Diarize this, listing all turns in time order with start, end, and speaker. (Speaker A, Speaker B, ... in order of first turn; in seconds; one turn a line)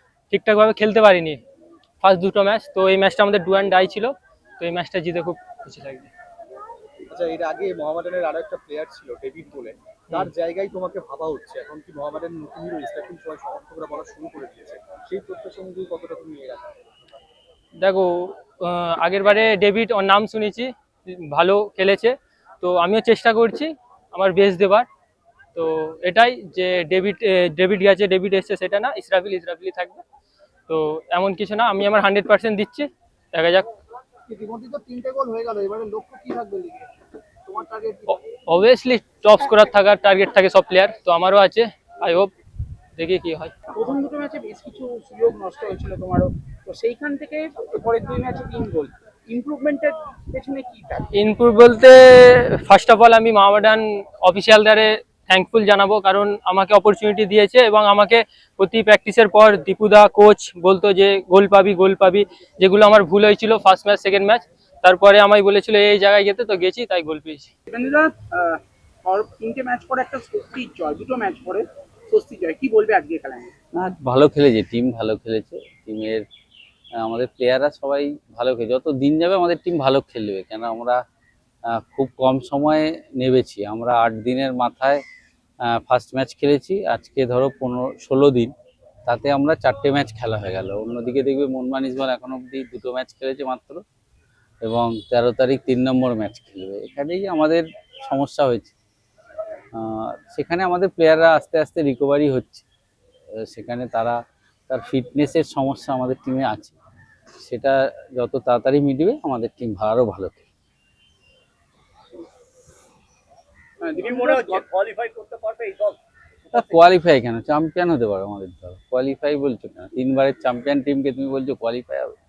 Speaker A: 0.3-1.4
Speaker A: 2.0-6.1
Speaker B: 7.1-16.7
Speaker A: 17.8-24.9
Speaker A: 25.5-30.0
Speaker A: 30.7-33.7
Speaker B: 34.3-35.7
Speaker C: 34.7-36.9
Speaker C: 37.5-38.1
Speaker A: 38.1-42.3
Speaker A: 43.0-43.5
Speaker C: 43.7-51.1
Speaker A: 51.1-67.5
Speaker C: 67.7-73.5
Speaker D: 73.8-76.2
Speaker D: 77.0-81.0
Speaker D: 81.7-85.0
Speaker D: 85.7-88.5
Speaker D: 89.1-93.8
Speaker D: 94.6-98.7
Speaker D: 99.7-102.6
Speaker D: 103.4-104.2
Speaker D: 104.7-106.7
Speaker D: 107.4-110.5
Speaker C: 113.8-114.6
Speaker E: 114.0-116.0
Speaker E: 116.5-116.8
Speaker D: 116.5-122.1